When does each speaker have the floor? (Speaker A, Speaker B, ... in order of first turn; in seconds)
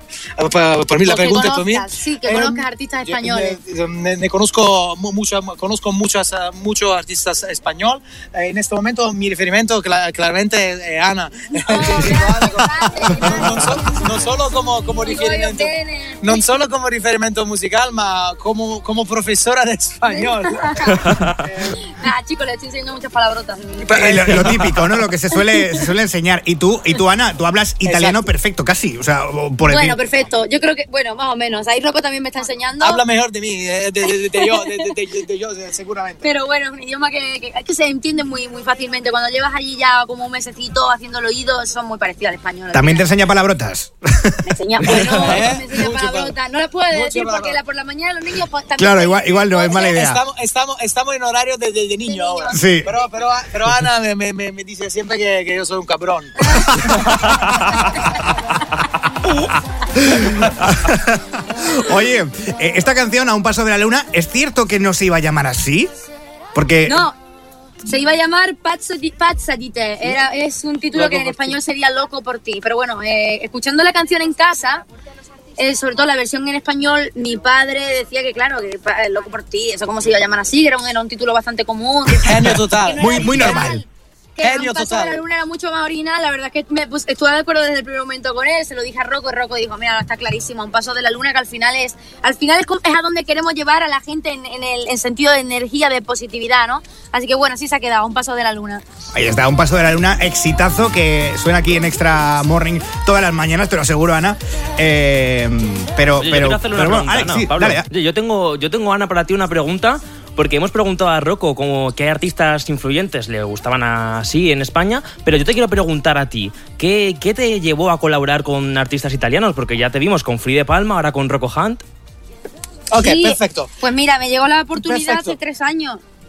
Speaker A: 0.4-21.8, 23.8-24.9, 27.8-28.2, 32.8-36.2, 44.9-46.3, 46.9-47.6, 49.9-57.2, 82.2-83.7, 84.4-85.2, 122.9-123.7, 124.8-125.3
Speaker B: 1.0-3.6, 11.6-14.0, 15.0-16.6, 20.1-21.1, 21.7-24.1, 25.4-25.9, 29.6-33.0, 34.1-34.9, 36.2-43.1, 44.4-50.0, 52.0-52.8, 66.8-67.1, 67.8-74.8, 75.6-98.8, 123.0-126.0
Speaker C: 21.1-21.3, 71.0-71.4, 106.2-121.8
Speaker D: 23.9-30.0, 42.7-45.4, 48.8-50.2, 52.5-52.9, 56.5-58.0, 59.2-65.9, 66.5-67.1, 83.0-83.8, 99.1-107.9